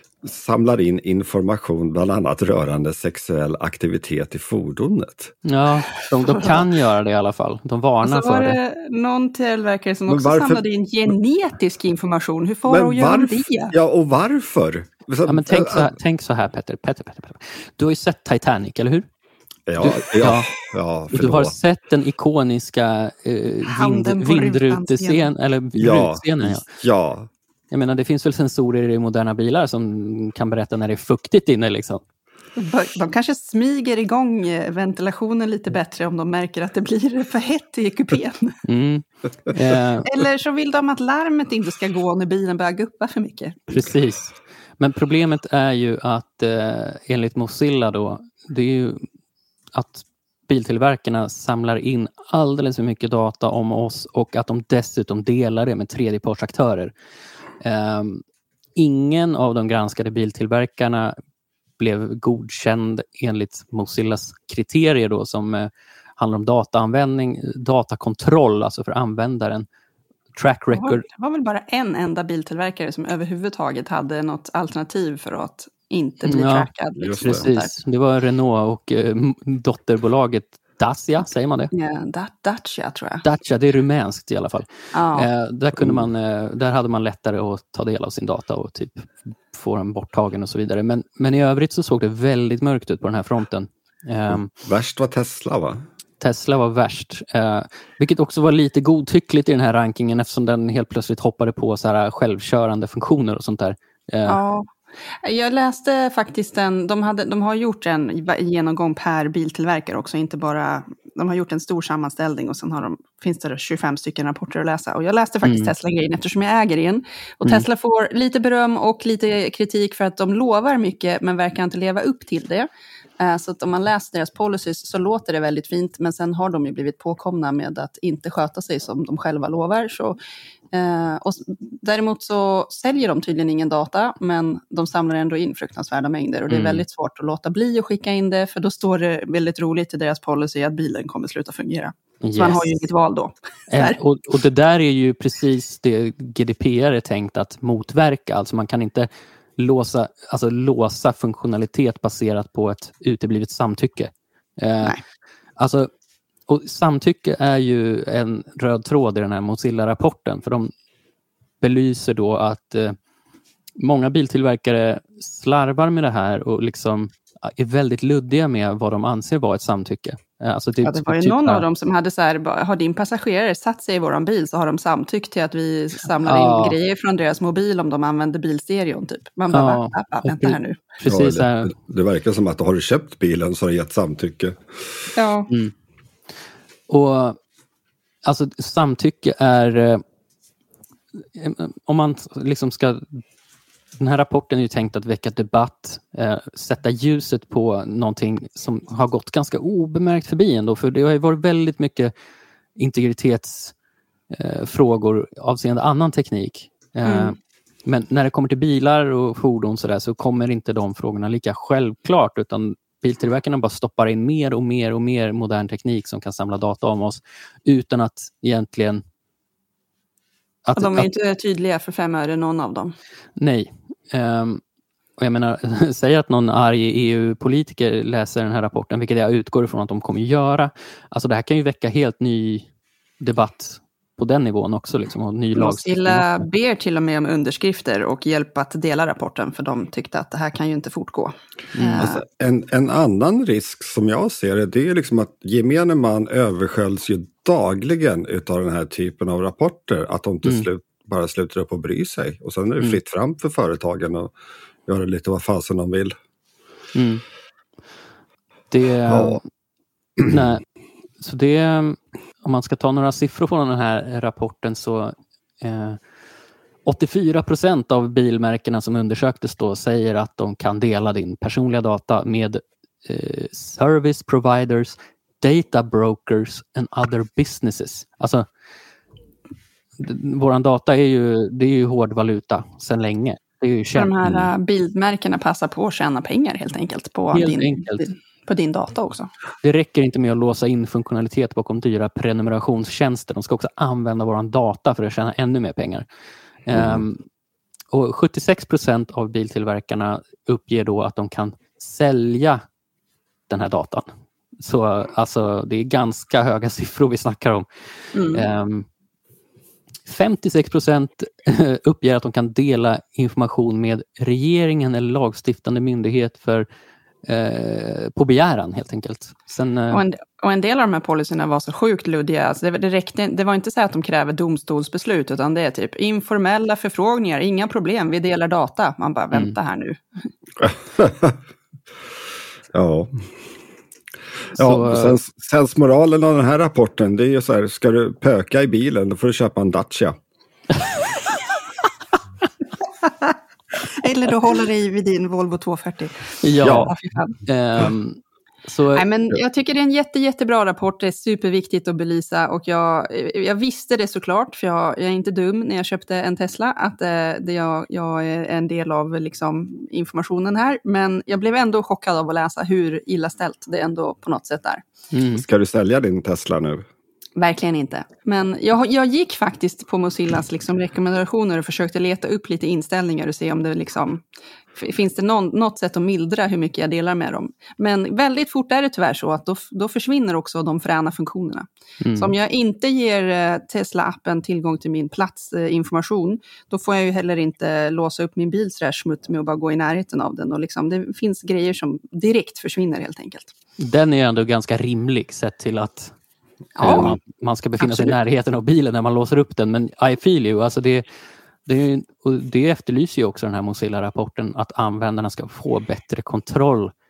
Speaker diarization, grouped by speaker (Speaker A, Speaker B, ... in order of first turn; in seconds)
Speaker A: 0.2-5.3, 10.1-10.6, 12.7-16.0, 19.7-21.6, 25.8-27.3, 77.0-77.5, 85.8-86.1, 94.3-95.8, 181.1-184.6, 242.0-254.3, 254.9-256.1, 259.1-259.4, 296.8-297.0, 330.6-331.4, 332.7-333.1, 334.6-340.2, 365.4-366.9, 396.9-397.1
Speaker B: 5.4-8.6, 15.3-19.1, 19.8-20.5, 21.1-26.7, 27.7-32.0, 38.6-40.1, 43.7-49.1, 49.7-56.9, 57.6-58.2, 58.8-61.2, 61.8-69.7, 70.3-71.0, 76.3-76.7, 77.2-81.7, 83.2-94.5, 96.2-104.4, 115.4-115.7, 136.5-136.8, 142.2-142.6, 143.7-155.0, 155.6-155.9, 156.5-160.7, 161.6-163.0, 163.8-171.7, 176.2-176.8, 179.5-181.7, 186.9-187.4, 188.2-190.0, 191.2-193.2, 194.0-202.1, 202.8-203.8, 204.3-219.0, 220.7-221.1, 223.4-224.6, 225.2-236.3, 241.8-242.1, 256.9-257.2, 258.7-259.4, 260.2-260.6, 261.2-266.0, 266.9-278.5, 280.0-284.5, 287.3-288.1, 289.6-296.1, 296.7-297.3, 297.9-302.6, 303.5-304.1, 304.6-308.9, 310.1-316.7, 317.3-320.0, 334.5-335.2, 346.4-346.9, 347.4-349.1, 365.1-365.4, 382.0-382.3, 393.8-396.1, 396.8-401.1, 401.7-406.9
Speaker C: 6.1-6.7, 8.0-13.7, 23.7-25.3, 32.6-38.6, 40.0-43.7, 70.7-77.7, 81.7-83.2, 84.9-85.3, 104.3-122.7, 123.2-130.2, 130.7-144.0, 170.8-180.8, 185.2-185.5, 207.1-207.3, 220.8-222.9, 235.6-242.2, 284.0-289.3, 308.1-308.5, 319.9-330.0, 343.9-347.4, 348.9-364.8, 367.4-374.2, 374.8-393.5, 396.8-397.2, 397.8-398.1